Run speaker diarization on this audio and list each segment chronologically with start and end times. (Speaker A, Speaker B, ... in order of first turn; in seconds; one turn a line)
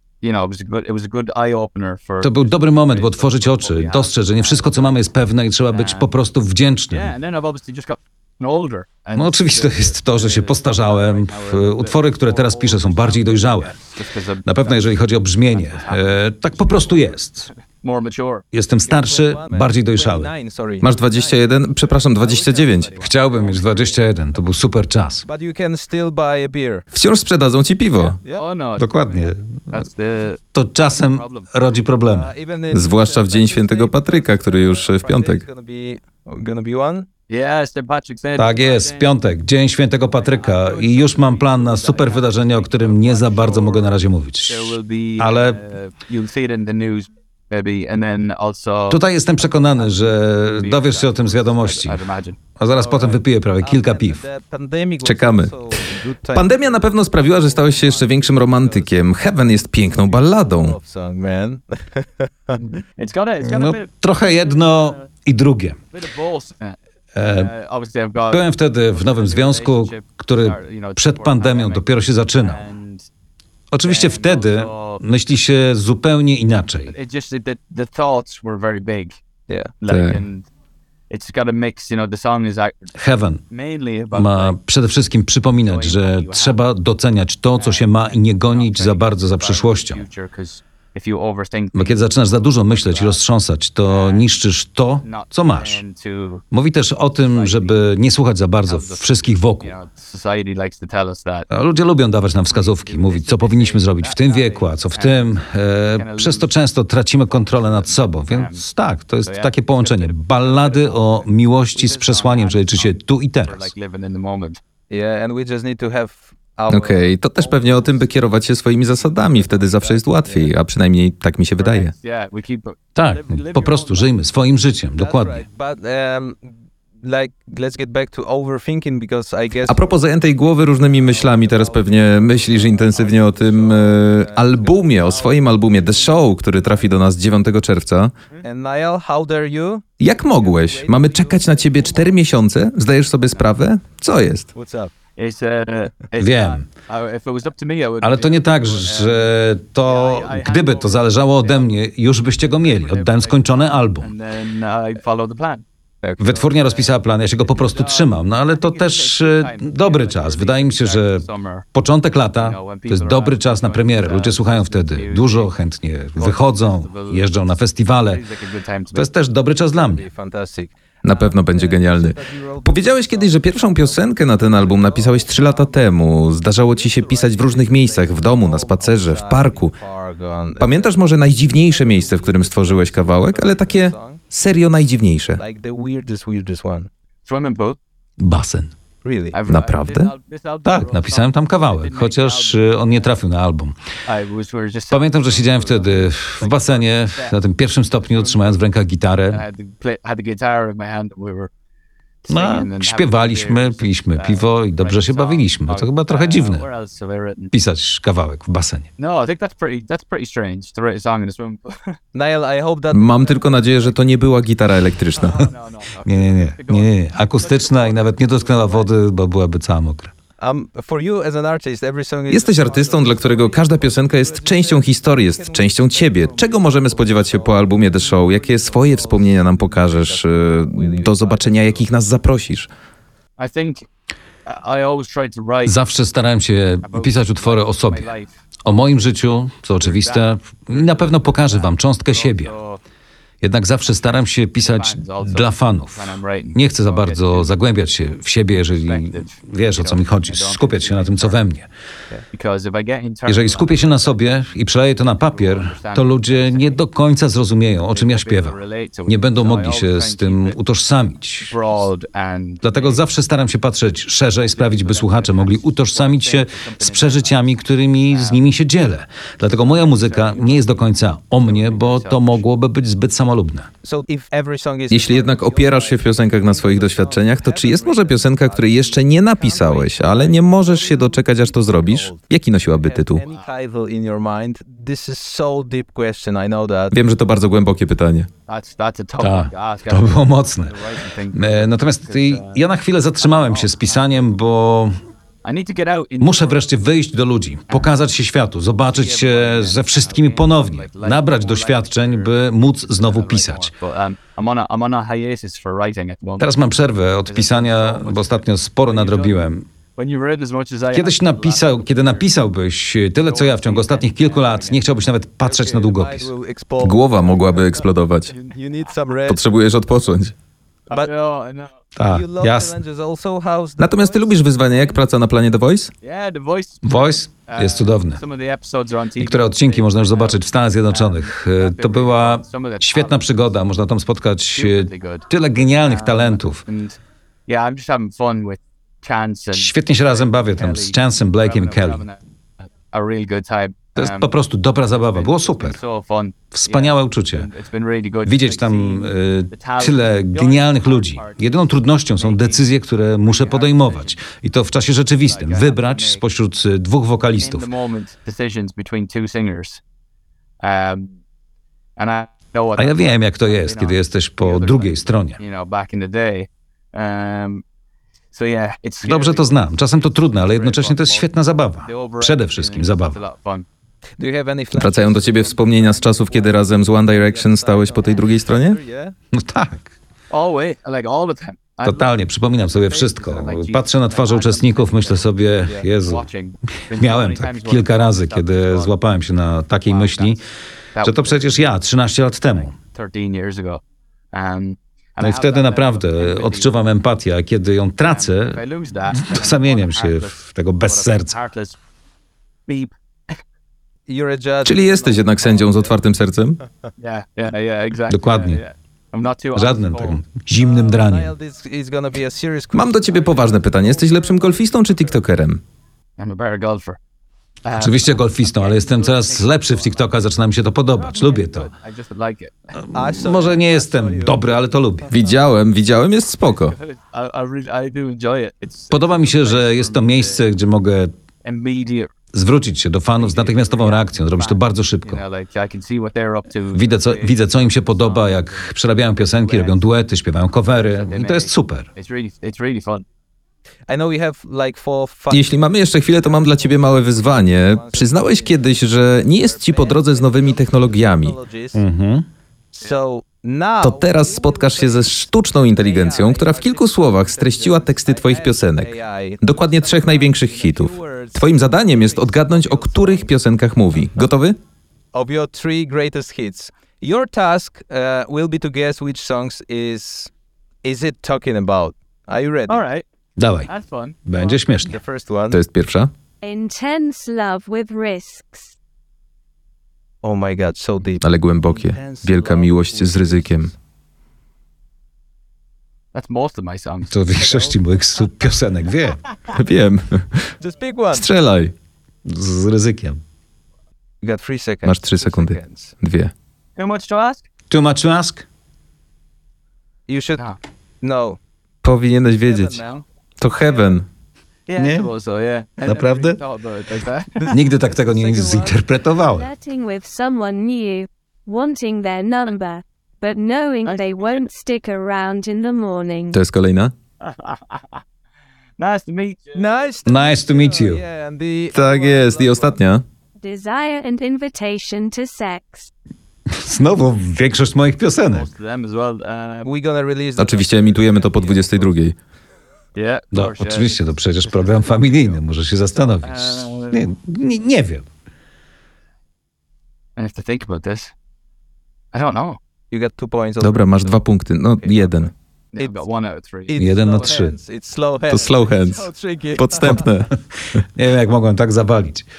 Speaker A: 0.2-5.0
Speaker B: 2.2-7.1
Speaker A: 5.7-6.2
Speaker A: 6.9-18.4
Speaker B: 9.2-13.8
Speaker B: 14.4-17.5
Speaker B: 18.5-20.3
Speaker C: 18.8-21.6
Speaker D: 20.8-22.9
Speaker A: 21.3-24.0
Speaker B: 23.0-25.2
Speaker C: 25.2-26.9
Speaker D: 26.9-28.2
Speaker C: 27.9-28.4
Speaker A: 28.3-31.9
Speaker B: 28.8-29.8
Speaker B: 30.5-32.3
Speaker C: 32.1-37.1
Speaker D: 32.7-35.5
Speaker A: 37.3-39.2
Speaker B: 38.4-45.6
Speaker A: 40.0-53.2
Speaker B: 48.9-52.0
Speaker B: 52.6-54.2
Speaker C: 53.6-62.5
Speaker D: 55.0-60.8
Speaker A: 62.6-65.1
Speaker B: 63.4-65.8
Speaker A: 65.9-73.1
Speaker B: 67.2-67.5
Speaker B: 68.3-72.7
Speaker B: 73.7-77.0
Speaker A: 73.8-75.0
Speaker A: 76.9-79.2
Speaker C: 79.5-79.7
Speaker A: 79.8-80.5
Speaker D: 79.9-80.2
Speaker A: 81.1-82.9
Speaker B: 83.0-83.4
Speaker A: 83.5-84.6
Speaker B: 84.1-90.0
Speaker A: 85.5-86.6
Speaker A: 87.5-93.2
Speaker B: 91.7-95.8
Speaker A: 93.9-94.3
Speaker A: 95.0-96.4
Speaker B: 96.5-99.8
Speaker A: 97.0-97.8
Speaker A: 98.7-101.5
Speaker B: 101.5-113.7
Speaker A: 102.5-106.5
Speaker A: 107.3-108.6
Speaker A: 109.2-114.6
Speaker C: 114.9-120.5
Speaker D: 116.7-121.9
Speaker A: 119.6-120.0
Speaker A: 121.6-124.1
Speaker B: 123.0-125.5
Speaker C: 125.0-129.9
Speaker D: 129.6-138.1
Speaker C: 130.8-136.3
Speaker C: 138.4-142.2
Speaker D: 140.0-144.5
Speaker A: 143.2-143.6
Speaker C: 144.6-144.9
Speaker A: 145.2-151.8
Speaker B: 146.2-146.7
Speaker B: 148.0-154.1
Speaker A: 152.6-155.6
Speaker B: 156.2-168.2
Speaker A: 156.2-161.7
Speaker A: 162.3-165.6
Speaker A: 166.2-169.1
Speaker B: 168.9-170.1
Speaker C: 169.7-170.7
Speaker D: 171.0-179.7
Speaker A: 171.1-171.4
Speaker C: 171.4-175.9
Speaker C: 176.6-184.2
Speaker D: 180.6-185.4
Speaker C: 185.4-186.9
Speaker A: 187.2-187.8
Speaker B: 188.2-188.7
Speaker C: 189.0-189.4
Speaker A: 189.3-193.2
Speaker D: 189.5-190.1
Speaker B: 190.7-193.8
Speaker A: 194.1-197.4
Speaker B: 194.9-199.4
Speaker A: 197.9-198.6
Speaker A: 199.3-201.5
Speaker A: 202.3-207.5
Speaker B: 202.3-206.7
Speaker B: 207.5-208.9
Speaker A: 209.0-212.0
Speaker C: 212.1-213.9
Speaker D: 212.9-215.3
Speaker A: 215.1-218.9
Speaker B: 216.1-220.1
Speaker C: 220.4-231.9
Speaker D: 222.3-232.7
Speaker A: 222.6-224.3
Speaker A: 233.4-233.9
Speaker A: 234.4-235.8
Speaker B: 235.7-238.1
Speaker A: 236.8-238.3
Speaker B: 238.7-242.5
Speaker A: 239.8-242.8
Speaker B: 243.4-251.7
Speaker A: 244.6-247.6
Speaker A: 248.5-251.4
Speaker A: 252.3-256.8
Speaker B: 253.3-261.6
Speaker A: 257.9-260.6
Speaker A: 261.5-263.1
Speaker B: 262.6-273.7
Speaker A: 264.4-268.4
Speaker A: 269.4-272.5
Speaker C: 273.8-286.9
Speaker D: 274.9-283.2
Speaker D: 286.9-288.3
Speaker A: 288.5-292.6
Speaker B: 289.2-290.8
Speaker B: 291.3-294.9
Speaker A: 293.2-294.3
Speaker A: 295.4-296.7
Speaker B: 296.2-303.7
Speaker A: 298.8-306.5
Speaker B: 306.4-309.6
Speaker A: 307.2-312.3
Speaker B: 310.9-316.3
Speaker A: 313.2-315.1
Speaker C: 315.4-317.8
Speaker D: 316.8-318.4
Speaker A: 317.5-318.6
Speaker C: 318.4-319.5
Speaker D: 319.2-320.3
Speaker A: 320.9-321.7
Speaker B: 322.0-322.8
Speaker C: 322.1-325.0
Speaker D: 323.8-325.9
Speaker A: 326.0-333.6
Speaker B: 326.9-328.2
Speaker B: 329.2-336.6
Speaker A: 334.5-335.3
Speaker A: 335.8-342.2
Speaker B: 339.5-342.1
Speaker A: 342.9-344.3
Speaker B: 343.9-345.8
Speaker A: 344.9-352.7
Speaker B: 346.5-347.5
Speaker B: 348.2-357.7
Speaker A: 353.2-354.2
Speaker A: 355.2-356.2
Speaker A: 357.4-359.8
Speaker A: 360.6-361.1
Speaker A: 362.0-367.6
Speaker B: 362.8-365.4
Speaker A: 368.3-373.7
Speaker B: 369.0-373.2
Speaker C: 374.2-375.7
Speaker D: 374.8-378.8
Speaker A: 375.2-378.3
Speaker C: 377.6-379.1
Speaker B: 379.3-379.9
Speaker A: 380.3-385.4
Speaker B: 381.8-386.3
Speaker A: 386.0-389.0
Speaker B: 386.9-390.4
Speaker A: 389.8-390.4
Speaker A: 390.9-391.8
Speaker B: 391.0-392.7
Speaker A: 392.5-396.8
Speaker B: 395.2-401.4
Speaker A: 398.0-401.8
Speaker A: 402.7-403.4
Speaker C: 404.1-406.0
Speaker D: 404.6-406.6
Speaker A: 407.0-410.2
Speaker B: 408.1-408.6
Speaker B: 409.5-411.3
Speaker C: 410.6-414.6
Speaker D: 412.7-415.6
Speaker A: 416.2-417.0
Speaker A: 417.6-420.2
Speaker B: 417.7-421.7
Speaker A: 420.9-422.8
Speaker B: 422.8-425.1
Speaker C: 422.9-424.6
Speaker D: 425.1-426.8
Speaker A: 426.4-430.5
Speaker B: 428.9-431.1
Speaker A: 431.4-432.1
Speaker B: 432.3-435.2
Speaker A: 433.1-439.9
Speaker B: 436.7-441.9
Speaker A: 440.7-443.1
Speaker C: 443.9-451.9
Speaker D: 445.3-451.4
Speaker B: 451.7-452.2
Speaker C: 452.7-463.6
Speaker D: 453.8-464.6
Speaker C: 465.1-470.3
Speaker C: 470.8-472.8
Speaker A: 472.7-473.1
Speaker B: 473.4-473.7
Speaker A: 473.7-474.6
Speaker B: 474.3-475.0
Speaker C: 474.9-475.6
Speaker D: 475.5-476.1
Speaker E: 476.4-478.7
Speaker C: 480.2-483.7
Speaker D: 481.2-483.7
Speaker A: 486.1-487.8
Speaker B: 487.1-489.2
Speaker D: 489.5-490.5
Speaker C: 490.6-491.3
Speaker D: 491.1-491.7
Speaker B: 492.3-493.2
Speaker C: 494.2-495.9
Speaker D: 494.8-496.3
Speaker A: 496.8-497.5
Speaker B: 497.7-498.4
Speaker C: 500.1-500.5
Speaker C: 501.0-501.4
Speaker D: 501.8-502.8
Speaker C: 502.4-503.0
Speaker D: 503.4-504.1
Speaker A: 504.7-507.6
Speaker B: 504.8-505.1
Speaker B: 505.9-506.4
Speaker B: 507.5-509.5
Speaker C: 508.4-508.7
Speaker E: 509.2-516.4
Speaker A: 513.9-514.5
Speaker D: 516.3-516.9
Speaker A: 517.2-518.0
Speaker A: 518.8-519.9
Speaker C: 519.5-522.8
Speaker B: 520.0-521.0
Speaker D: 521.7-523.0
Speaker E: 523.4-525.9
Speaker B: 526.5-528.5
Speaker A: 528.3-529.7
Speaker C: 529.6-531.7
Speaker D: 530.4-532.1
Speaker A: 531.4-531.9
Speaker A: 533.0-535.4
Speaker B: 533.3-538.0
Speaker A: 536.0-537.1
Speaker A: 540.2-541.1
Speaker A: 542.1-542.6
Speaker C: 542.9-546.1
Speaker D: 543.6-545.3
Speaker A: 545.7-546.8
Speaker C: 546.7-550.1
Speaker B: 546.8-547.6
Speaker D: 548.3-550.3
Speaker B: 550.9-552.3